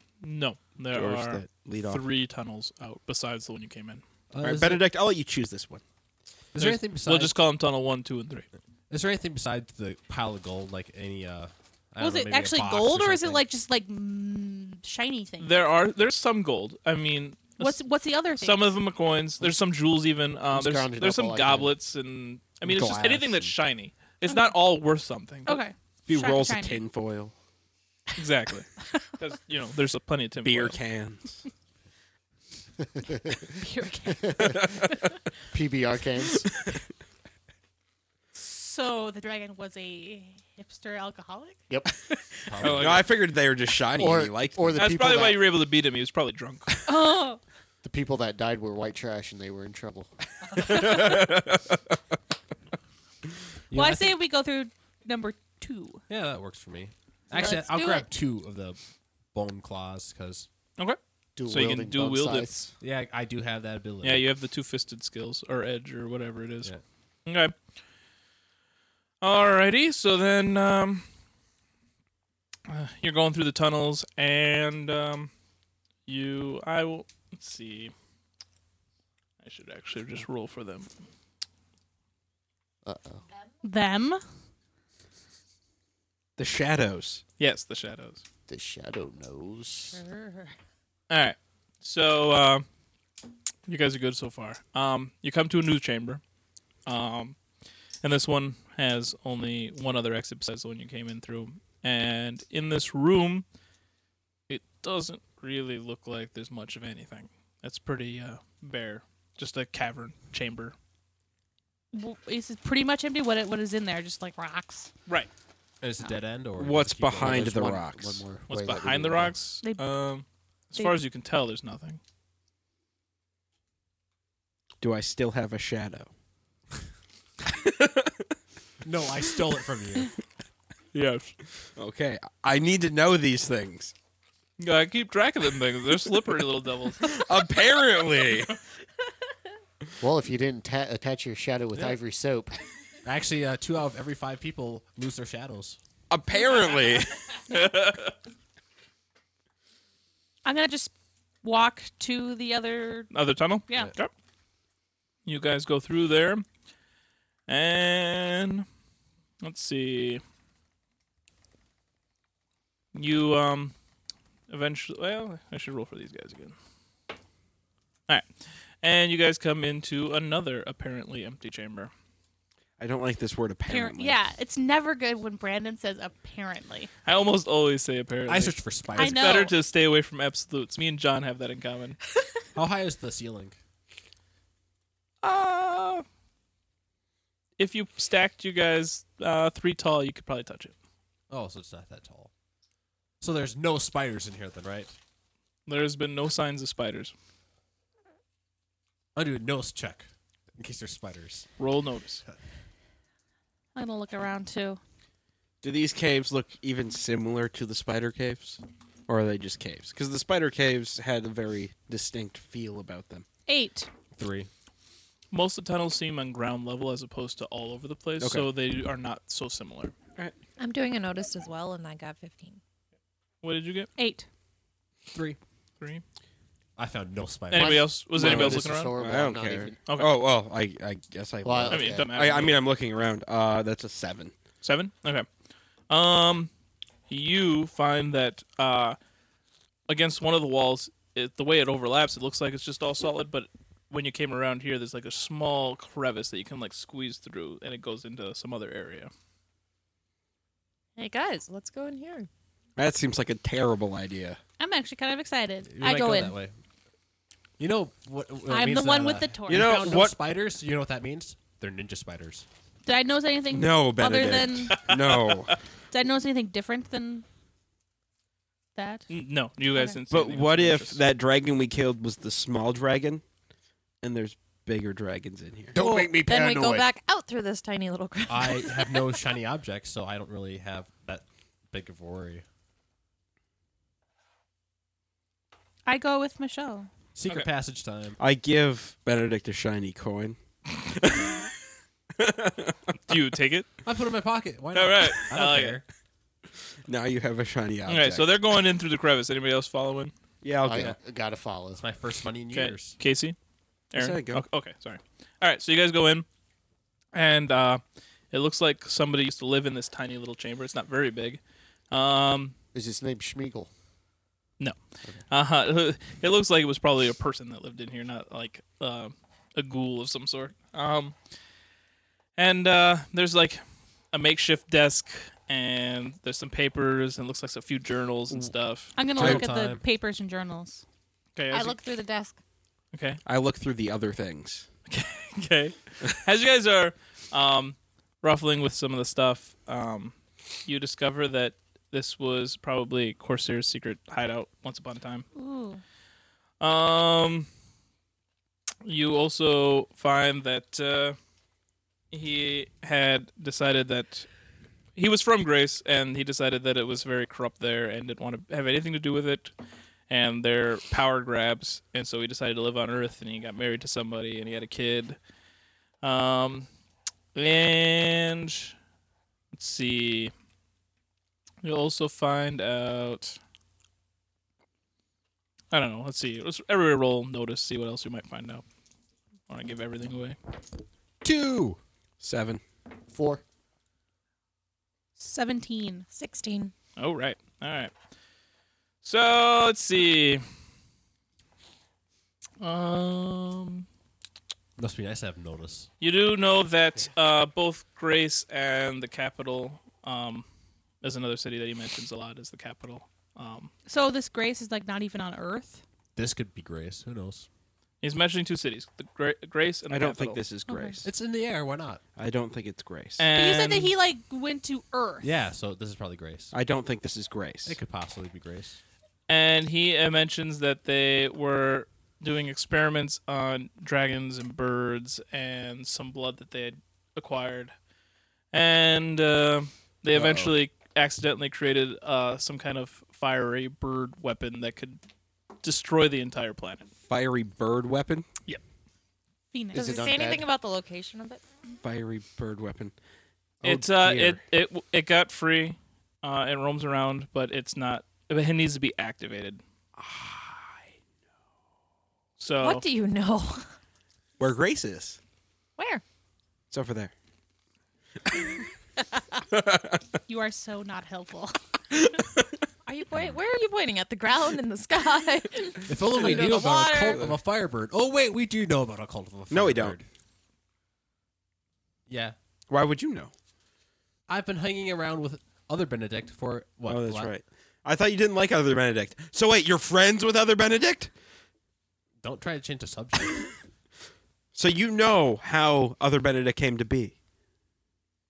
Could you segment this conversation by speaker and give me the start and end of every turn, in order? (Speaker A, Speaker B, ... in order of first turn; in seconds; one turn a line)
Speaker A: 0.2-4.0
Speaker B: 0.9-2.0
Speaker C: 4.3-4.8
Speaker B: 4.4-5.8
Speaker C: 6.5-7.4
Speaker A: 6.6-8.5
Speaker C: 8.9-13.4
Speaker D: 12.0-15.5
Speaker A: 15.4-17.8
Speaker D: 17.6-18.8
Speaker A: 18.4-25.6
Speaker E: 20.5-21.8
Speaker E: 22.6-23.4
Speaker D: 24.2-24.6
Speaker D: 25.4-26.8
Speaker B: 26.1-27.3
Speaker A: 28.2-30.8
Speaker B: 30.4-31.4
Speaker E: 32.8-33.5
Speaker D: 33.5-34.7
Speaker E: 34.2-34.5
Speaker B: 34.4-35.1
Speaker E: 35.5-36.5
Speaker D: 38.3-41.7
Speaker C: 42.5-43.0
Speaker A: 42.6-43.0
Speaker B: 42.6-44.9
Speaker E: 44.0-45.4
Speaker A: 44.8-46.8
Speaker D: 46.9-47.4
Speaker E: 47.8-50.1
Speaker B: 50.5-51.8
Speaker C: 53.7-54.2
Speaker D: 53.7-56.0
Speaker C: 56.1-58.8
Speaker F: 57.3-58.1
Speaker C: 59.3-60.5
Speaker A: 60.8-62.5
Speaker E: 61.4-62.7
Speaker C: 62.8-64.2
Speaker A: 64.0-66.7
Speaker A: 67.2-67.5
Speaker A: 69.2-71.0
Speaker A: 72.7-75.3
Speaker A: 76.1-77.9
Speaker A: 79.4-80.9
Speaker E: 82.8-83.2
Speaker D: 83.6-84.2
Speaker B: 86.4-87.2
Speaker A: 87.4-88.2
Speaker E: 88.5-90.0
Speaker F: 90.0-90.5
Speaker A: 91.1-92.7
Speaker A: 93.7-96.2
Speaker A: 96.8-97.3
Speaker A: 98.0-103.5
Speaker A: 104.5-110.7
Speaker D: 111.9-114.9
Speaker C: 115.8-117.7
Speaker B: 116.6-118.2
Speaker E: 117.2-119.3
Speaker A: 118.5-122.0
Speaker D: 120.7-121.0
Speaker B: 124.8-126.1
Speaker B: 127.5-128.2
Speaker C: 128.8-130.1
Speaker A: 130.9-131.3
Speaker B: 131.8-133.9
Speaker A: 134.6-137.1
Speaker B: 137.0-138.6
Speaker E: 140.0-142.6
Speaker C: 143.0-145.8
Speaker B: 146.1-147.4
Speaker A: 147.5-148.1
Speaker D: 150.4-153.1
Speaker A: 153.1-154.1
Speaker D: 153.7-153.9
Speaker A: 155.2-156.4
Speaker A: 157.5-158.7
Speaker A: 159.4-160.2
Speaker A: 162.9-163.7
Speaker A: 164.5-166.5
Speaker A: 168.8-171.9
Speaker B: 172.8-174.2
Speaker D: 173.7-176.9
Speaker A: 177.0-182.0
Speaker C: 178.3-179.4
Speaker D: 178.9-179.6
Speaker C: 182.5-183.6
Speaker A: 185.2-186.0
Speaker A: 187.6-190.7
Speaker C: 191.3-192.3
Speaker C: 193.2-194.9
Speaker A: 195.7-197.1
Speaker C: 199.1-201.5
Speaker A: 201.6-202.2
Speaker D: 203.7-204.8
Speaker B: 205.6-213.2
Speaker D: 213.5-213.9
Speaker C: 214.1-214.5
Speaker A: 215.3-219.9
Speaker B: 218.2-218.5
Speaker F: 220.6-222.6
Speaker A: 223.4-223.9
Speaker D: 223.9-224.3
Speaker C: 225.1-225.4
Speaker C: 226.8-228.4
Speaker A: 227.5-228.9
Speaker E: 227.6-229.8
Speaker B: 228.2-234.3
Speaker E: 231.4-232.1
Speaker A: 231.7-232.6
Speaker A: 234.6-235.3
Speaker A: 235.9-236.5
Speaker A: 237.1-239.0
Speaker A: 239.9-249.1
Speaker F: 251.0-252.3
Speaker B: 252.8-254.4
Speaker D: 254.6-256.4
Speaker C: 255.6-256.5
Speaker C: 257.6-262.4
Speaker D: 258.5-259.7
Speaker B: 259.5-260.1
Speaker D: 262.8-264.9
Speaker B: 263.5-265.5
Speaker A: 264.7-265.5
Speaker D: 265.9-267.2
Speaker D: 268.8-269.1
Speaker A: 269.1-271.0
Speaker D: 269.7-270.0
Speaker B: 270.1-273.2
Speaker B: 274.0-275.8
Speaker E: 275.7-276.9
Speaker F: 275.8-279.2
Speaker C: 278.3-282.4
Speaker D: 285.9-286.9
Speaker C: 287.1-288.2
Speaker B: 288.2-291.5
Speaker B: 292.2-293.0
Speaker A: 293.1-293.7
Speaker C: 293.8-295.8
Speaker A: 294.7-295.8
Speaker B: 296.9-298.3
Speaker A: 297.9-300.1
Speaker B: 300.4-300.9
Speaker E: 300.6-301.8
Speaker C: 301.8-303.0
Speaker A: 302.5-303.4
Speaker A: 303.9-306.2
Speaker B: 303.9-304.4
Speaker A: 307.1-311.4
Speaker A: 311.9-312.5
Speaker E: 312.7-313.7
Speaker A: 315.3-321.1
Speaker A: 322.4-328.9
Speaker D: 328.9-330.8
Speaker C: 329.1-329.8
Speaker B: 329.2-329.4
Speaker A: 331.4-331.8
Speaker F: 331.5-332.4
Speaker A: 332.9-333.2
Speaker B: 333.2-334.7
Speaker A: 334.9-340.1
Speaker A: 340.6-345.3
Speaker D: 345.3-345.8
Speaker A: 346.6-347.5
Speaker A: 348.8-351.2
Speaker A: 352.1-354.3
Speaker A: 354.9-359.5
Speaker A: 360.1-365.2
Speaker A: 366.0-366.7
Speaker A: 367.3-368.7
Speaker A: 369.5-370.3
Speaker A: 371.6-373.4
Speaker A: 375.7-378.6
Speaker A: 379.5-380.4
Speaker C: 381.2-381.8
Speaker B: 382.2-382.6
Speaker E: 383.1-383.4
Speaker D: 385.2-386.1
Speaker F: 386.1-386.7
Speaker A: 387.0-387.9
Speaker A: 389.0-390.4
Speaker A: 392.6-393.9
Speaker C: 394.8-395.9
Speaker A: 396.0-400.4
Speaker A: 401.0-403.7
Speaker D: 403.9-405.8
Speaker C: 406.1-407.5
Speaker A: 408.0-410.4
Speaker B: 409.9-411.1
Speaker D: 410.7-411.0
Speaker C: 411.0-412.0
Speaker B: 412.2-413.3
Speaker A: 413.2-413.9
Speaker D: 413.3-415.3
Speaker C: 415.2-416.5
Speaker B: 416.5-417.8
Speaker C: 417.6-418.8
Speaker A: 419.3-427.7
Speaker A: 428.5-435.0
Speaker C: 430.1-430.5
Speaker A: 435.6-436.9
Speaker B: 437.1-438.3
Speaker D: 439.5-440.1
Speaker E: 439.7-440.5
Speaker F: 439.7-441.4
Speaker B: 441.8-442.9
Speaker B: 443.6-444.4
Speaker A: 443.6-449.6
Speaker B: 450.0-450.9
Speaker A: 452.4-452.9
Speaker F: 452.6-453.6
Speaker B: 454.4-455.2
Speaker D: 455.8-456.0
Speaker B: 456.7-457.1
Speaker B: 459.5-460.0
Speaker D: 460.3-461.5
Speaker F: 462.9-467.2
Speaker C: 463.1-463.4
Speaker C: 465.9-470.0
Speaker B: 466.3-466.6
Speaker B: 469.5-470.0
Speaker C: 472.1-472.4
Speaker B: 472.7-473.3
Speaker C: 474.3-477.3
Speaker B: 476.9-481.1
Speaker C: 482.2-483.5
Speaker B: 484.5-487.1